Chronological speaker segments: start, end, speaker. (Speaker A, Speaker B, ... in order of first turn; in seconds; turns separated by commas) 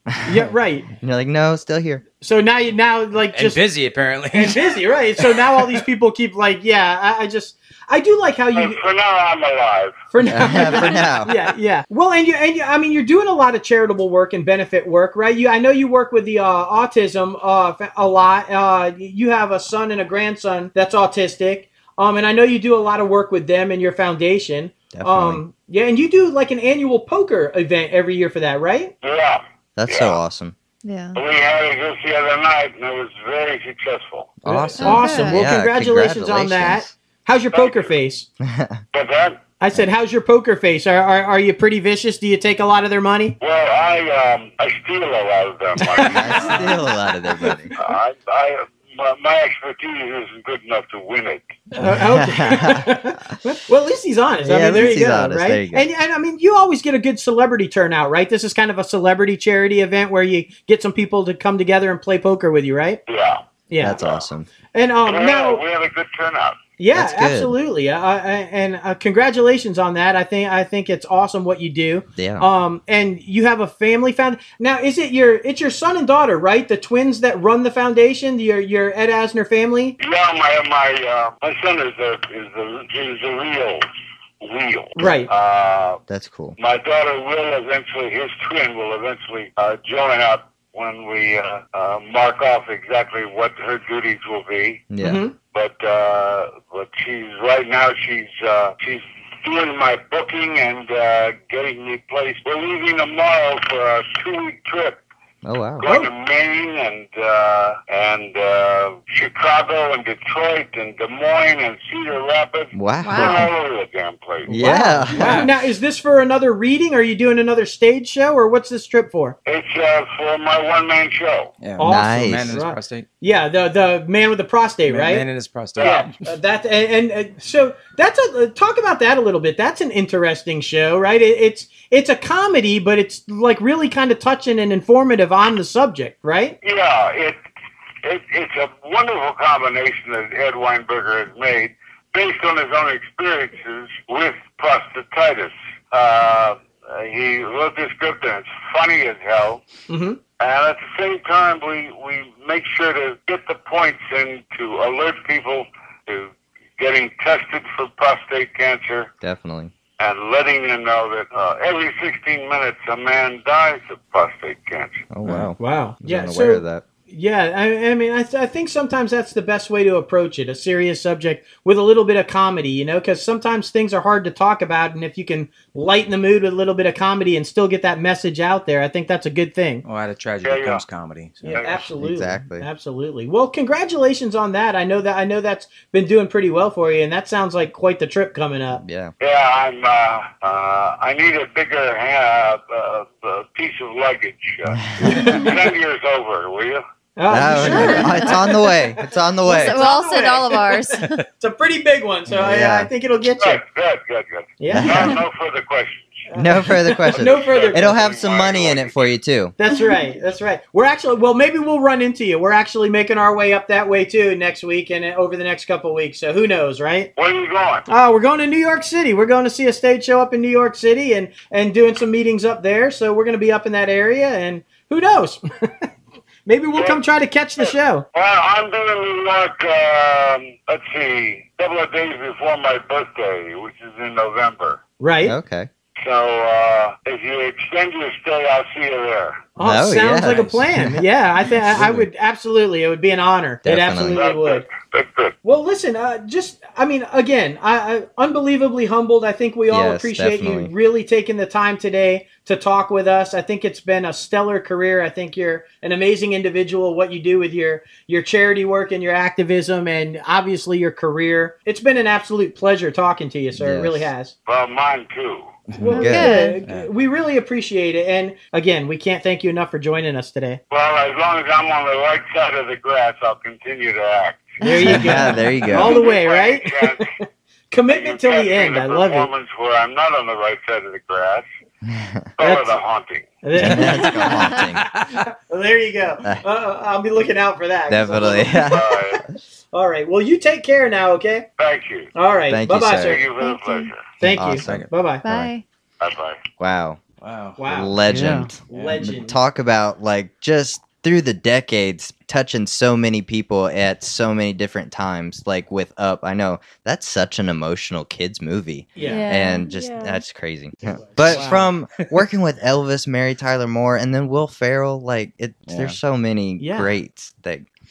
Speaker A: 0.1-2.0, Speaker B: 0.2-0.9, Speaker B: 2.2-3.6, Speaker C: 3.3-5.5, Speaker B: 4.3-8.8, Speaker D: 8.5-10.0, Speaker B: 10.1-28.9, Speaker A: 10.2-11.3, Speaker A: 24.9-25.4, Speaker D: 29.0-30.2, Speaker A: 29.8-30.5, Speaker E: 30.9-31.2, Speaker D: 31.1-34.4, Speaker A: 34.4-36.9, Speaker B: 34.5-38.3, Speaker E: 34.8-35.5, Speaker D: 37.5-37.9, Speaker A: 38.4-38.8, Speaker D: 38.9-39.4, Speaker B: 39.6-43.4, Speaker D: 43.4-46.8, Speaker A: 45.9-47.7, Speaker B: 46.0-46.8, Speaker B: 47.4-47.9, Speaker D: 47.8-51.6, Speaker B: 51.8-63.0, Speaker A: 51.8-53.0, Speaker A: 54.4-55.9, Speaker D: 63.1-63.4, Speaker B: 63.7-64.0, Speaker A: 63.8-64.5, Speaker D: 64.0-64.2, Speaker B: 64.7-65.6, Speaker D: 65.0-66.6, Speaker B: 66.8-80.0, Speaker A: 66.9-67.5, Speaker A: 72.2-72.5, Speaker D: 80.0-83.9, Speaker D: 84.4-86.0, Speaker B: 85.0-85.3, Speaker A: 86.1-86.5, Speaker D: 86.6-94.8, Speaker A: 94.9-95.2, Speaker B: 95.0-95.3, Speaker D: 95.5-105.0, Speaker A: 105.4-105.9, Speaker D: 105.8-114.7, Speaker B: 105.8-106.1, Speaker A: 112.7-113.5, Speaker E: 113.0-113.5, Speaker B: 114.5-119.4, Speaker A: 114.5-115.5, Speaker C: 115.2-115.5, Speaker D: 119.5-121.5, Speaker C: 121.6-123.0, Speaker B: 121.8-125.2, Speaker A: 121.8-122.6, Speaker C: 124.9-126.2, Speaker D: 125.8-126.1, Speaker B: 125.8-136.6, Speaker D: 136.6-137.4, Speaker D: 138.0-149.6, Speaker B: 149.9-150.2, Speaker D: 150.4-159.1, Speaker A: 159.2-159.7, Speaker D: 160.0-165.1, Speaker A: 165.1-166.8, Speaker C: 165.2-165.5, Speaker B: 165.6-179.8, Speaker C: 179.8-181.8, Speaker D: 180.4-180.8, Speaker B: 181.4-188.8, Speaker D: 181.5-181.8, Speaker A: 182.0-182.7, Speaker A: 188.8-189.1, Speaker D: 189.2-196.8, Speaker B: 195.0-195.6, Speaker B: 197.2-203.6, Speaker A: 197.3-199.8, Speaker E: 197.7-198.2, Speaker E: 199.5-201.2, Speaker A: 202.3-202.9, Speaker D: 203.4-206.3, Speaker B: 204.6-205.2, Speaker A: 204.7-205.2, Speaker B: 206.3-207.9, Speaker A: 206.3-209.6, Speaker D: 207.2-209.1, Speaker B: 209.6-217.1, Speaker D: 217.2-217.8, Speaker B: 217.9-225.9, Speaker B: 226.5-228.0, Speaker D: 226.8-227.0, Speaker D: 227.6-234.8, Speaker B: 235.0-235.3, Speaker A: 235.2-235.7, Speaker D: 236.0-239.5, Speaker B: 239.6-244.7, Speaker A: 239.6-241.0, Speaker C: 240.2-240.7, Speaker C: 241.7-242.0, Speaker A: 243.7-244.2, Speaker D: 244.1-245.3, Speaker B: 245.4-264.3, Speaker A: 249.7-250.7, Speaker A: 263.5-264.1, Speaker D: 264.5-265.5, Speaker C: 265.7-266.0, Speaker B: 265.8-270.6, Speaker E: 265.8-266.6, Speaker A: 266.0-266.3, Speaker C: 266.6-266.9, Speaker D: 270.7-274.9, Speaker B: 274.6-277.1, Speaker E: 274.8-275.1, Speaker A: 274.8-276.0, Speaker D: 275.6-277.1, Speaker B: 277.7-279.3, Speaker D: 277.9-281.4, Speaker A: 281.8-282.2, Speaker D: 282.4-283.3, Speaker B: 282.4-282.8, Speaker B: 283.4-284.7, Speaker A: 283.6-284.9, Speaker C: 284.9-285.2, Speaker B: 285.3-288.7, Speaker A: 287.9-289.2, Speaker D: 288.5-289.2, Speaker B: 289.7-291.5, Speaker D: 291.6-292.1, Speaker B: 292.1-293.3, Speaker A: 292.5-293.2, Speaker D: 293.0-294.1, Speaker E: 293.4-293.9, Speaker B: 294.2-295.2, Speaker C: 294.3-294.9, Speaker A: 294.3-295.5, Speaker E: 295.2-295.6, Speaker D: 296.0-296.4, Speaker A: 296.6-297.0, Speaker C: 297.2-299.1, Speaker B: 297.6-298.0, Speaker A: 297.7-317.7, Speaker B: 298.6-299.4, Speaker B: 309.0-309.3, Speaker E: 309.0-310.2, Speaker B: 310.8-312.1, Speaker C: 315.7-316.0, Speaker B: 316.6-317.0